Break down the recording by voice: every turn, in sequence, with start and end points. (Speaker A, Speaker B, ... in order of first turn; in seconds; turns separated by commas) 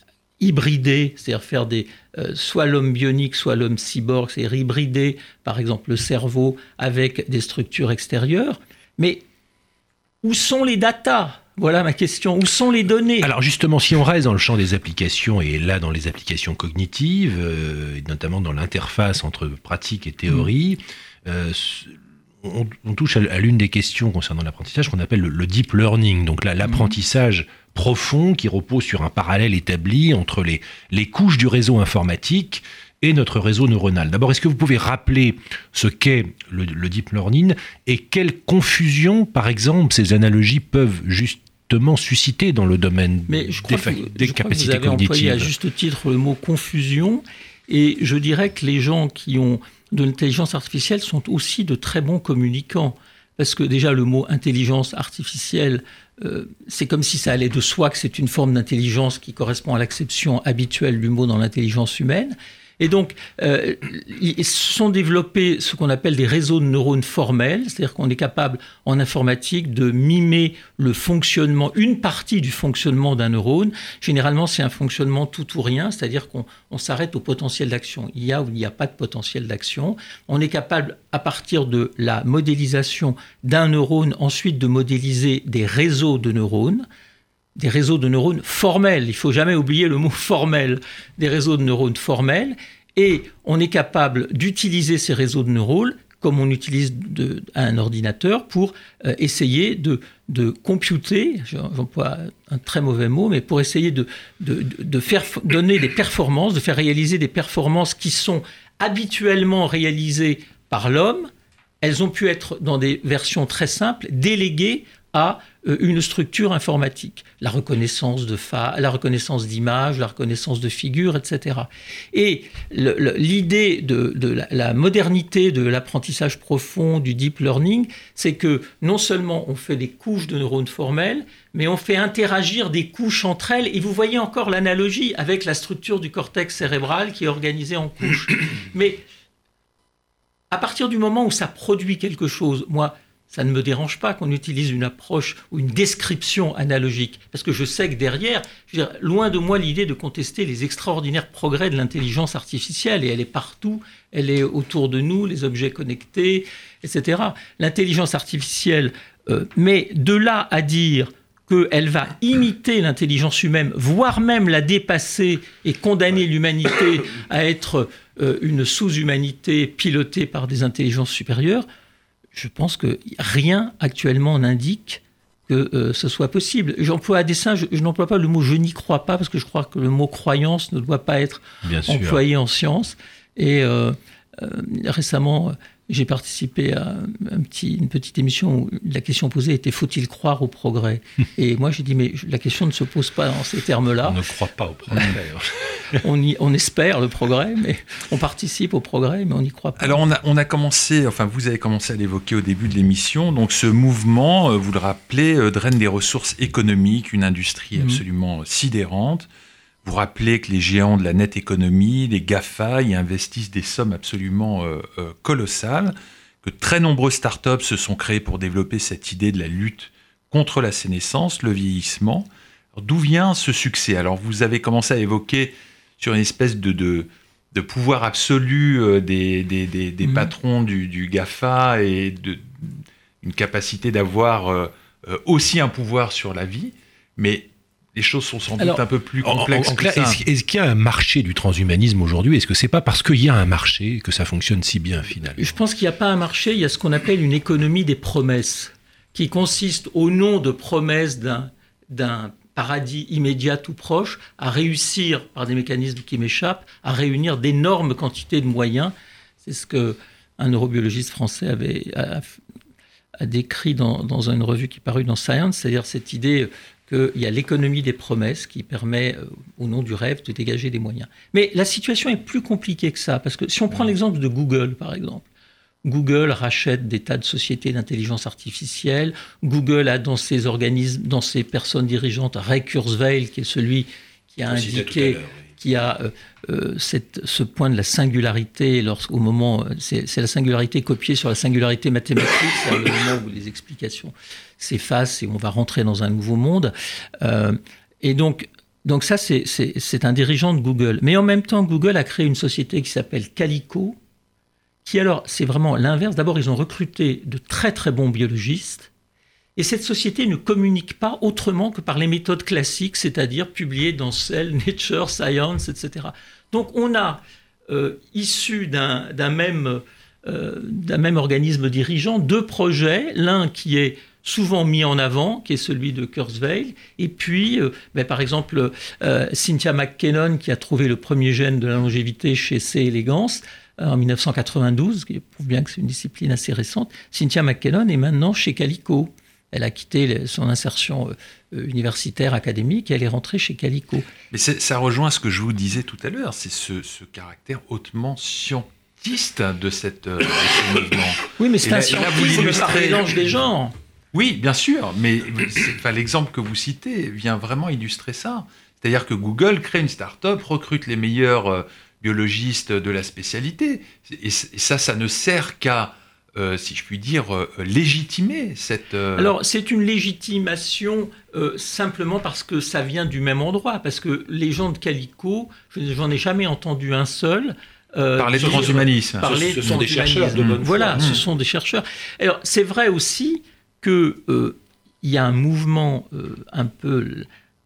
Speaker A: 0.4-9.2, Speaker A: 10.2-13.3, Speaker B: 13.2-45.5, Speaker A: 43.3-86.9, Speaker A: 87.6-111.3, Speaker A: 111.8-139.0, Speaker A: 140.5-171.7, Speaker A: 172.3-194.2, Speaker B: 181.6-182.2, Speaker B: 194.1-196.0, Speaker A: 194.9-195.2, Speaker A: 195.9-200.0, Speaker C: 199.8-209.3, Speaker A: 207.8-208.0, Speaker C: 209.8-240.2, Speaker A: 230.0-230.3, Speaker B: 239.2-245.6, Speaker A: 245.4-262.4, Speaker A: 263.2-275.2, Speaker A: 275.9-304.0, Speaker B: 284.5-285.4, Speaker A: 304.9-308.9, Speaker A: 309.6-344.1, Speaker C: 344.3-353.1, Speaker A: 351.4-353.8, Speaker C: 354.1-369.3, Speaker A: 369.1-387.3, Speaker C: 378.2-379.8, Speaker B: 378.4-381.2, Speaker C: 380.4-381.2